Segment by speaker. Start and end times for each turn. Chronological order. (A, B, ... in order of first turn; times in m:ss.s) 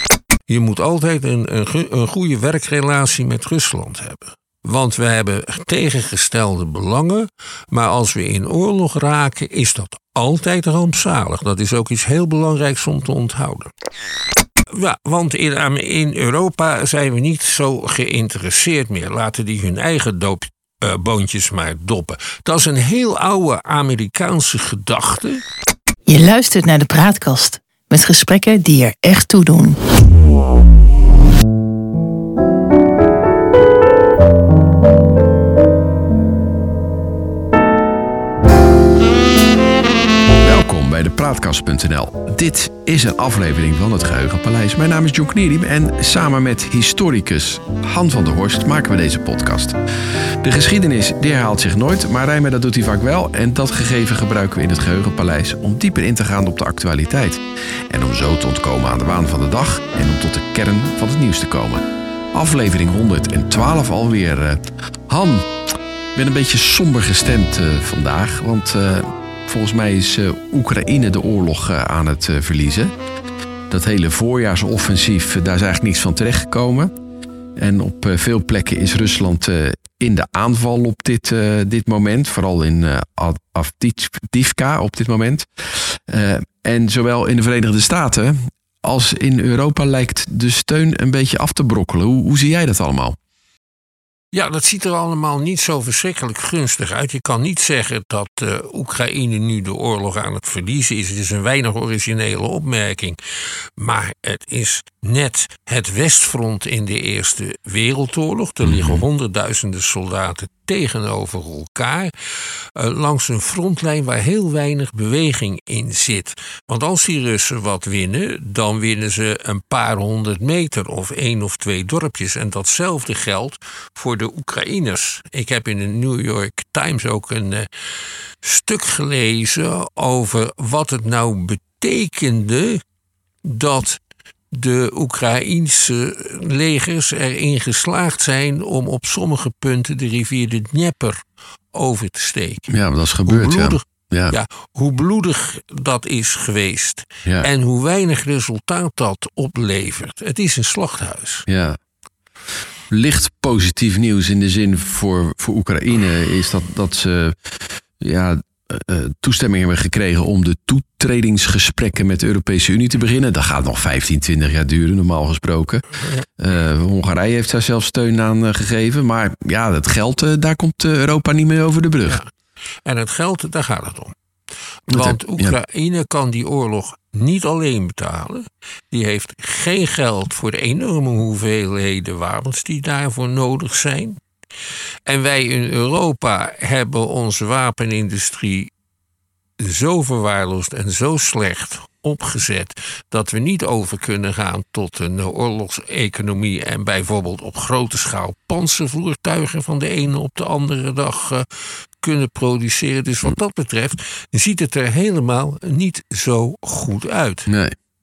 0:00.5-0:13.7 A
0:14.7-0:25.4 A
0:26.1-0:29.8 B
0:40.4-0:49.8 C
0:50.4-1:05.5 C
1:06.1-1:12.9 C
1:13.7-1:16.9 C
1:17.6-1:33.2 C
1:34.3-1:43.2 A
1:43.8-1:52.1 A
1:48.6-1:49.0 C
1:52.7-2:07.7 A
2:08.4-2:12.8 A
2:13.4-2:22.7 A
2:22.7-2:24.3 C
2:23.2-2:31.4 A
2:31.5-2:31.8 C
2:32.9-2:52.2 C
2:52.8-2:54.1 A
2:54.9-3:04.2 A
2:54.9-2:55.5 C
3:05.0-3:08.7 A
3:09.6-3:21.4 A
3:22.0-3:27.5 A
3:27.5-3:27.8 C